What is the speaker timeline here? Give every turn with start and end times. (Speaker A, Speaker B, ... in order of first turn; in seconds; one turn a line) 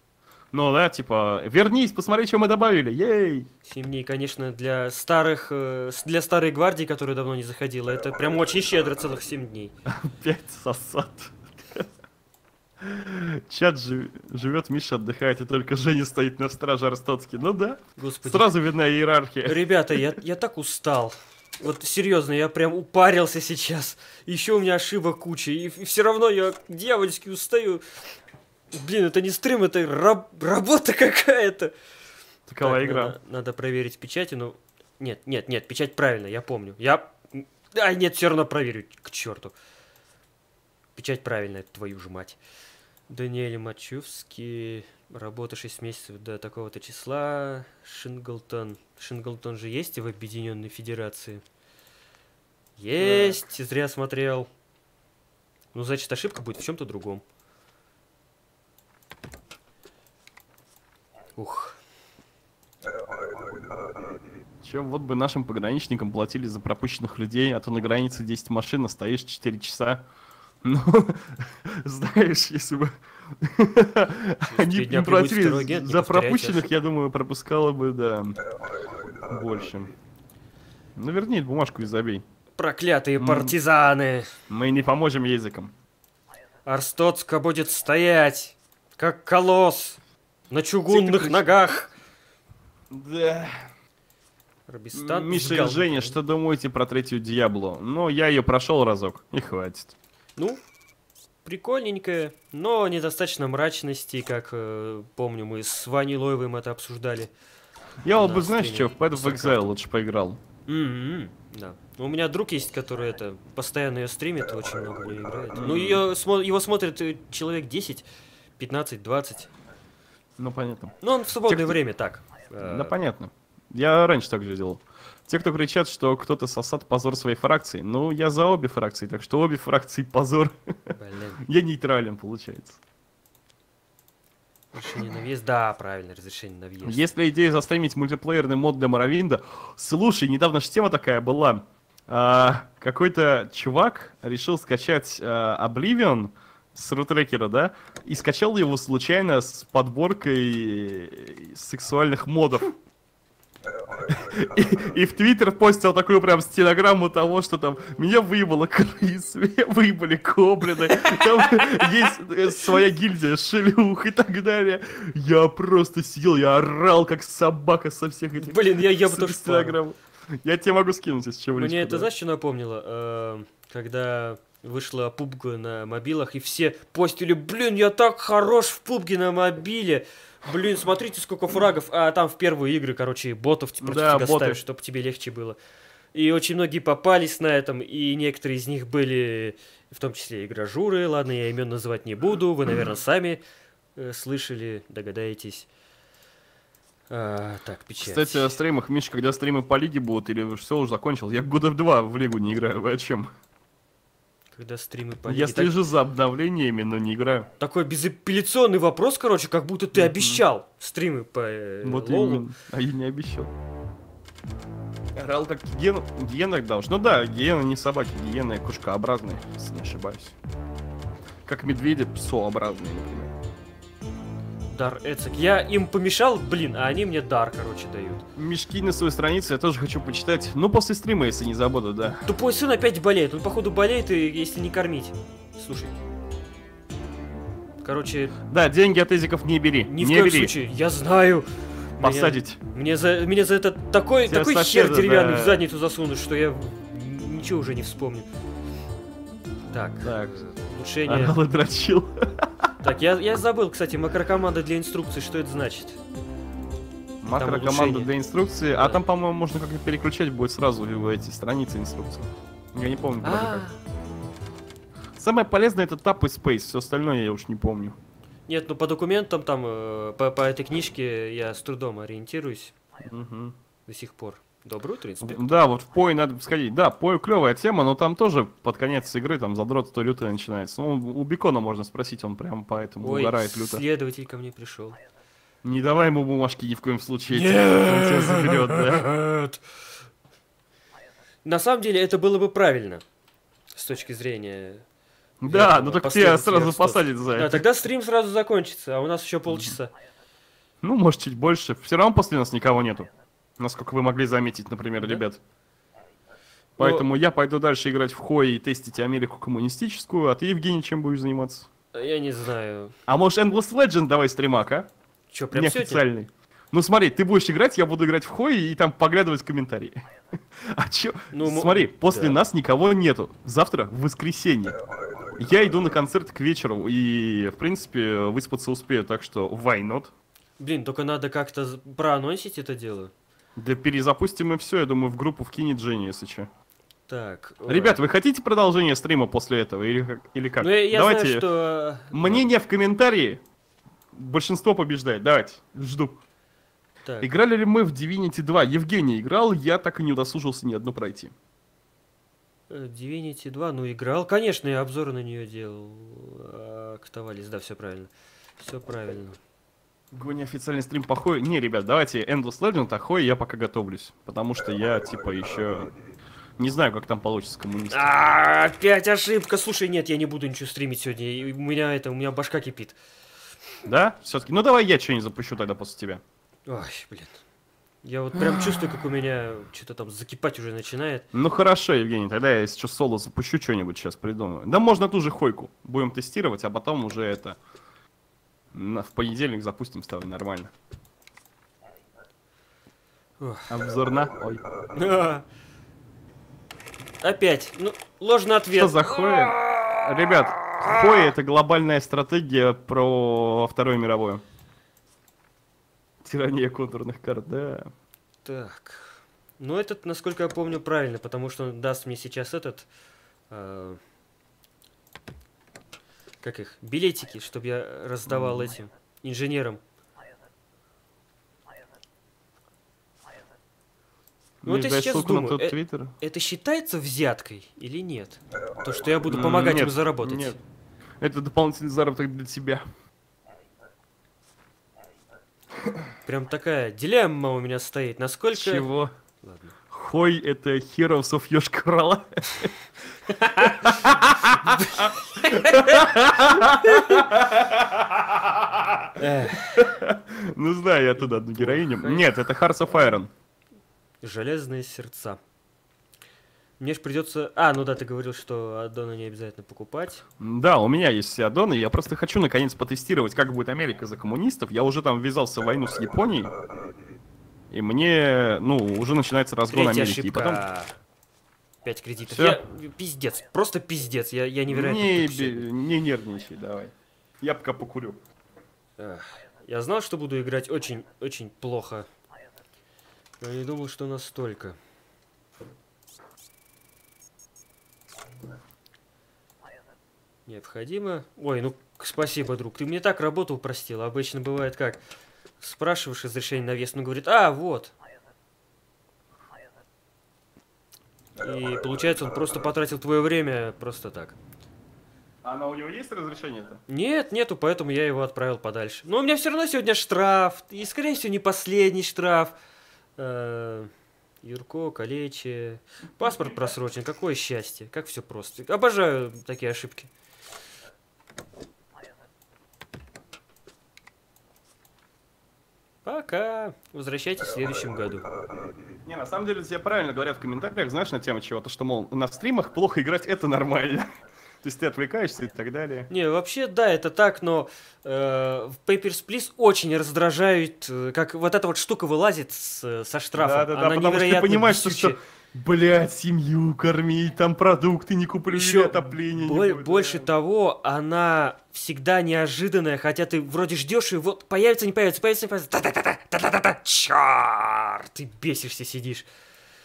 Speaker A: 0.5-3.5
Speaker B: 3.6-9.7
Speaker A: 9.8-11.9
Speaker A: 12.8-20.1
Speaker B: 18.0-18.5
Speaker B: 19.4-27.8
Speaker B: 28.7-31.7
Speaker A: 32.5-33.1
Speaker B: 32.6-39.5
Speaker B: 41.0-42.4
Speaker B: 43.1-51.4
Speaker B: 52.8-54.5
Speaker A: 53.0-53.4
Speaker B: 55.7-57.2
Speaker B: 61.4-61.8
Speaker A: 64.6-70.0
Speaker A: 70.6-78.4
Speaker B: 74.5-76.7
Speaker A: 79.3-79.9
Speaker A: 81.0-82.2
Speaker B: 82.6-84.3
Speaker A: 83.2-83.5
Speaker A: 84.5-85.7
Speaker B: 86.7-90.0
Speaker B: 90.5-91.9
Speaker A: 90.9-91.6
Speaker A: 92.9-93.7
Speaker B: 94.7-96.2
Speaker A: 94.9-99.9
Speaker B: 100.3-100.6
Speaker B: 101.4-107.3
Speaker A: 108.0-110.4
Speaker B: 108.1-109.7
Speaker B: 110.7-118.0
Speaker A: 115.5-116.0
Speaker B: 118.6-119.5
Speaker A: 120.4-121.8
Speaker B: 121.0-122.9
Speaker A: 122.6-130.7
Speaker B: 130.9-131.4
Speaker A: 131.4-132.8
Speaker B: 134.7-137.0
Speaker A: 136.8-152.7
Speaker A: 154.1-172.1
Speaker B: 160.9-161.9
Speaker B: 168.4-169.8
Speaker B: 171.6-185.6
Speaker A: 183.8-184.6
Speaker B: 186.1-193.4
Speaker B: 193.9-195.7
Speaker B: 197.1-198.5
Speaker A: 198.0-203.3
Speaker B: 204.5-205.8
Speaker A: 205.3-207.5
Speaker B: 207.6-212.5
Speaker A: 209.9-210.4
Speaker A: 211.8-213.5
Speaker A: 215.1-220.3
Speaker A: 221.4-223.3
Speaker B: 224.7-228.2
Speaker A: 228.3-232.2
Speaker B: 232.2-235.9
Speaker B: 237.8-238.3
Speaker A: 238.5-240.5
Speaker B: 239.8-248.3
Speaker A: 242.0-242.6
Speaker A: 244.2-245.6
Speaker B: 249.7-251.4
Speaker A: 250.0-250.4
Speaker A: 251.1-252.7
Speaker B: 252.8-256.0
Speaker A: 257.2-263.7
Speaker B: 257.3-258.1
Speaker B: 258.7-259.0
Speaker B: 263.2-263.8
Speaker A: 265.2-268.0
Speaker B: 268.5-272.7
Speaker A: 273.0-273.5
Speaker B: 273.9-275.4
Speaker A: 275.2-283.8
Speaker B: 283.0-285.0
Speaker A: 285.6-289.1
Speaker B: 287.3-289.6
Speaker B: 291.4-293.0
Speaker B: 293.7-294.8
Speaker A: 295.4-297.6
Speaker B: 295.4-299.9
Speaker A: 299.5-299.8
Speaker A: 300.8-305.4
Speaker A: 306.8-311.7
Speaker B: 306.8-307.1
Speaker B: 311.9-312.9
Speaker A: 313.1-314.9
Speaker B: 315.3-316.0
Speaker A: 315.5-320.0
Speaker A: 320.6-324.8
Speaker B: 321.3-322.4
Speaker A: 325.4-330.1
Speaker B: 330.6-333.1
Speaker A: 333.6-336.5
Speaker B: 337.1-338.0
Speaker A: 337.7-341.4
Speaker B: 340.6-342.4
Speaker A: 342.1-343.4
Speaker A: 344.1-346.2
Speaker B: 347.0-347.3
Speaker A: 347.2-351.3
Speaker B: 352.7-359.4
Speaker A: 360.1-365.9
Speaker A: 366.6-368.1
Speaker B: 367.9-372.9
Speaker A: 373.8-376.2
Speaker B: 376.7-377.4
Speaker B: 378.0-381.2
Speaker A: 378.4-378.9
Speaker A: 381.3-387.6
Speaker A: 388.7-390.7
Speaker B: 393.4-393.7
Speaker A: 393.7-394.6
Speaker B: 394.9-395.4
Speaker B: 397.2-401.3
Speaker A: 398.7-404.4
Speaker A: 406.2-407.9
Speaker B: 408.4-412.9
Speaker B: 413.5-414.0
Speaker B: 416.4-419.8
Speaker A: 418.3-418.7
Speaker A: 424.6-426.1
Speaker B: 424.6-430.6
Speaker A: 429.2-430.6
Speaker A: 431.2-432.8
Speaker B: 436.2-439.7
Speaker A: 438.5-439.1
Speaker A: 439.9-442.8
Speaker B: 443.3-447.4
Speaker A: 443.6-453.3
Speaker B: 449.2-449.9
Speaker B: 451.5-452.3
Speaker B: 454.2-455.4
Speaker B: 456.8-460.2
Speaker A: 460.4-466.5
Speaker A: 467.7-470.6
Speaker B: 469.7-470.9
Speaker B: 471.8-475.6
Speaker A: 472.3-472.6
Speaker A: 474.7-478.2
Speaker B: 479.0-482.1
Speaker B: 483.4-484.8
Speaker B: 490.5-495.0
Speaker B: 495.6-497.9
Speaker B: 501.4-504.4
Speaker A: 505.4-506.8
Speaker B: 506.9-512.5
Speaker B: 513.2-513.9
Speaker B: 514.4-520.1
Speaker B: 526.0-528.3
Speaker A: 529.0-534.1
Speaker A: 534.6-536.1
Speaker B: 536.1-545.2
Speaker A: 543.3-550.3
Speaker B: 548.5-559.2